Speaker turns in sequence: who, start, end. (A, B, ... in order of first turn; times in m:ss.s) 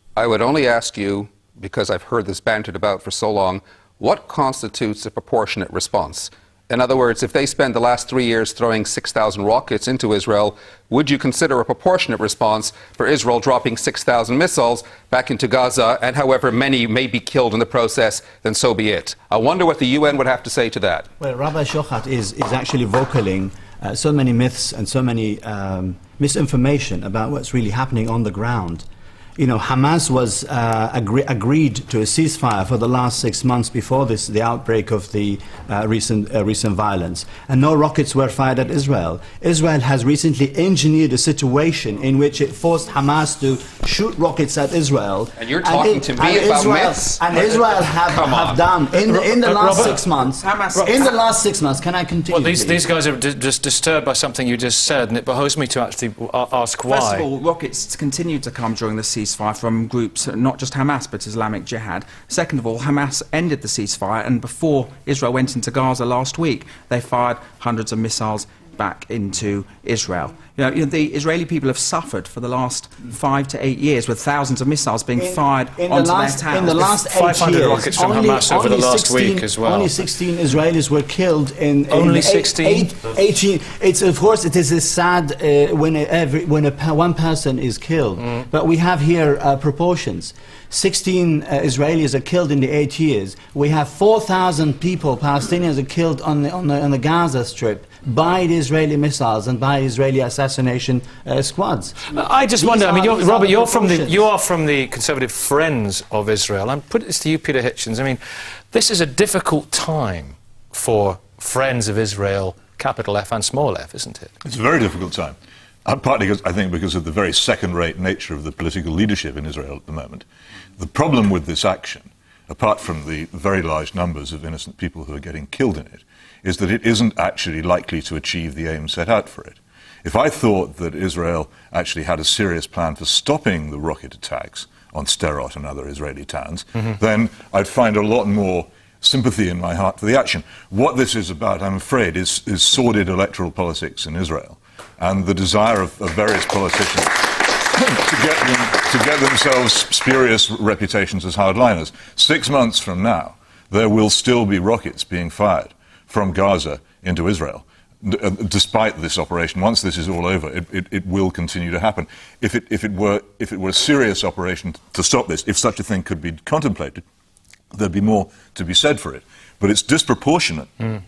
0:00.2-0:21.1 A
0:21.2-0:28.8 B
0:29.4-0:52.8 B
0:45.4-0:48.6 A
0:49.0-0:50.0 C
0:50.3-0:51.2 D
0:50.7-0:51.1 C
0:52.3-0:57.3 C
0:56.9-1:17.0 D
1:15.2-1:44.3 B
1:17.0-1:20.0 C
1:21.9-1:22.9 C
1:28.2-1:28.4 C
1:42.1-1:48.2 C
1:48.7-1:54.3 C
1:54.4-2:00.2 E
2:00.8-2:47.0 E
2:47.7-2:50.7 E